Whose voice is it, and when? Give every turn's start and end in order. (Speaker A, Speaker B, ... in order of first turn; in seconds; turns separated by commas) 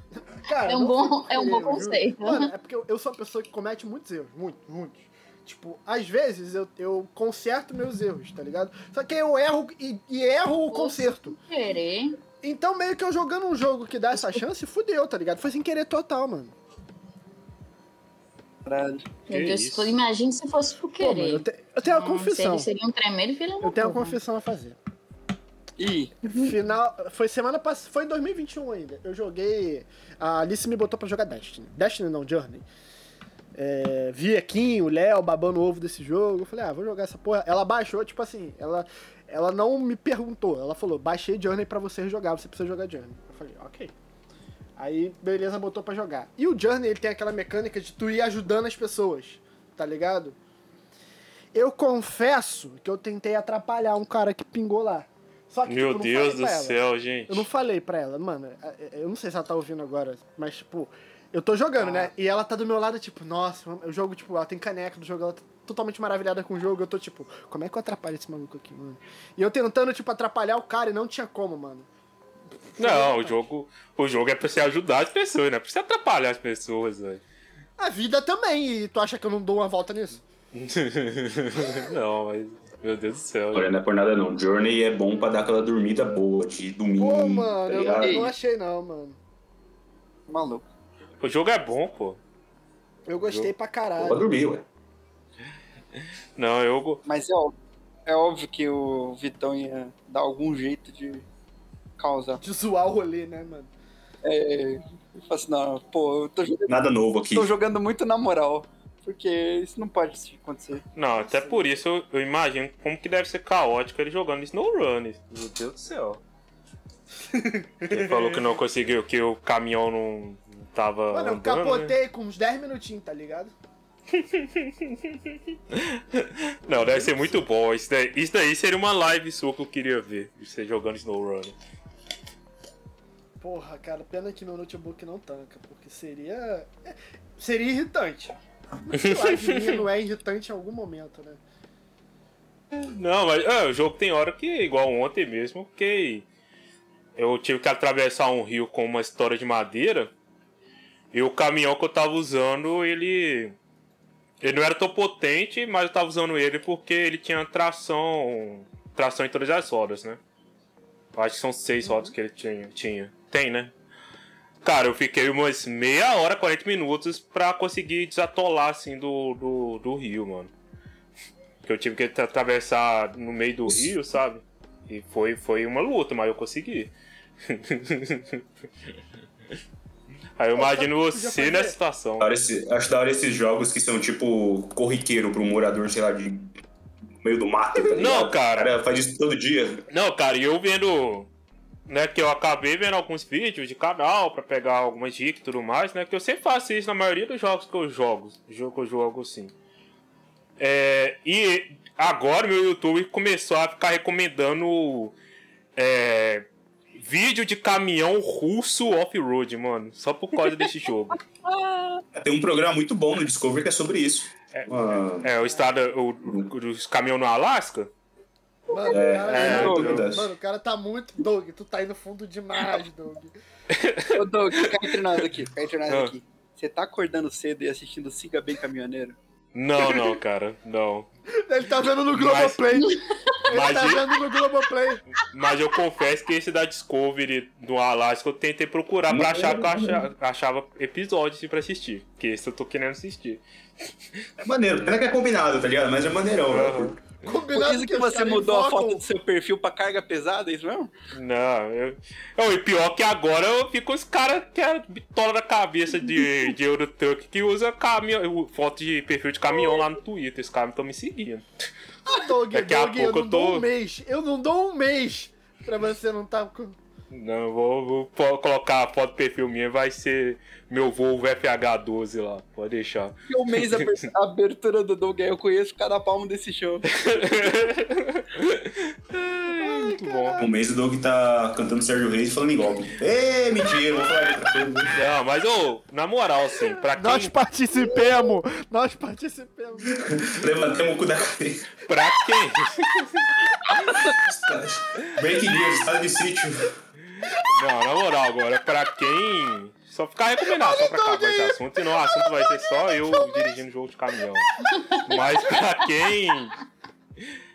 Speaker A: 0.3-11.3, Speaker B: 0.6-2.5, Speaker B: 10.7-12.2, Speaker A: 12.4-16.5, Speaker C: 18.6-19.1, Speaker B: 19.3-24.2, Speaker D: 19.3-19.9, Speaker A: 21.0-22.7, Speaker A: 23.6-24.8, Speaker C: 25.8-26.2, Speaker B: 26.3-26.5, Speaker A: 26.3-32.6, Speaker A: 33.5-43.9, Speaker A: 44.8-50.4, Speaker A: 51.5-71.9, Speaker D: 55.7-57.5, Speaker A: 72.7-73.4, Speaker D: 72.8-77.2, Speaker A: 77.8-80.2, Speaker D: 80.5-83.7, Speaker E: 83.5-88.3, Speaker A: 87.0-89.2, Speaker C: 88.0-88.3, Speaker C: 90.3-90.6, Speaker D: 91.2-92.2, Speaker A: 93.1-94.3, Speaker D: 93.2-93.5, Speaker E: 94.0-94.7, Speaker D: 96.4-97.0, Speaker C: 97.0-97.5, Speaker C: 98.0-101.2, Speaker C: 102.0-102.4, Speaker A: 102.4-103.7, Speaker C: 104.2-106.8, Speaker E: 106.7-107.5, Speaker C: 107.3-110.8, Speaker D: 110.9-116.2, Speaker A: 111.1-111.8, Speaker A: 117.3-118.4, Speaker D: 117.9-121.9, Speaker A: 121.1-123.5, Speaker D: 124.1-125.2, Speaker D: 125.7-131.6, Speaker A: 126.7-127.3, Speaker A: 133.4-141.4, Speaker D: 138.9-139.8, Speaker D: 142.7-146.3, Speaker D: 147.2-150.1, Speaker D: 151.1-153.5, Speaker D: 154.4-160.2, Speaker D: 161.1-163.7, Speaker A: 161.8-162.1, Speaker D: 164.6-170.5, Speaker D: 171.6-176.9, Speaker D: 177.5-178.4, Speaker D: 180.4-182.3, Speaker A: 180.5-181.8, Speaker E: 182.2-186.5, Speaker E: 187.2-189.8, Speaker D: 187.9-188.7, Speaker D: 189.9-191.3, Speaker D: 191.9-199.5, Speaker D: 200.6-205.2, Speaker D: 205.8-206.5, Speaker D: 207.0-211.2, Speaker C: 211.4-212.0, Speaker E: 212.1-215.3, Speaker D: 215.2-217.9, Speaker A: 218.7-223.3, Speaker E: 218.9-220.3, Speaker D: 219.2-220.1, Speaker C: 219.5-219.9, Speaker D: 223.7-224.9, Speaker C: 224.1-229.2, Speaker D: 225.9-226.1, Speaker D: 229.5-231.1, Speaker A: 231.4-235.0, Speaker D: 232.1-232.6, Speaker D: 233.4-234.1, Speaker D: 235.1-243.4, Speaker E: 239.1-240.0, Speaker E: 244.4-247.0, Speaker D: 246.5-246.9, Speaker A: 247.2-249.0, Speaker C: 247.5-250.9, Speaker D: 251.1-261.4, Speaker A: 262.0-266.8, Speaker D: 262.5-263.7, Speaker D: 267.1-274.1, Speaker C: 273.3-277.0, Speaker D: 277.0-280.4, Speaker A: 279.5-280.5, Speaker E: 280.4-284.9, Speaker D: 284.9-287.4, Speaker A: 286.9-290.5, Speaker E: 289.9-291.8, Speaker D: 291.9-294.0, Speaker E: 294.1-296.8, Speaker D: 297.2-306.6, Speaker A: 300.5-303.6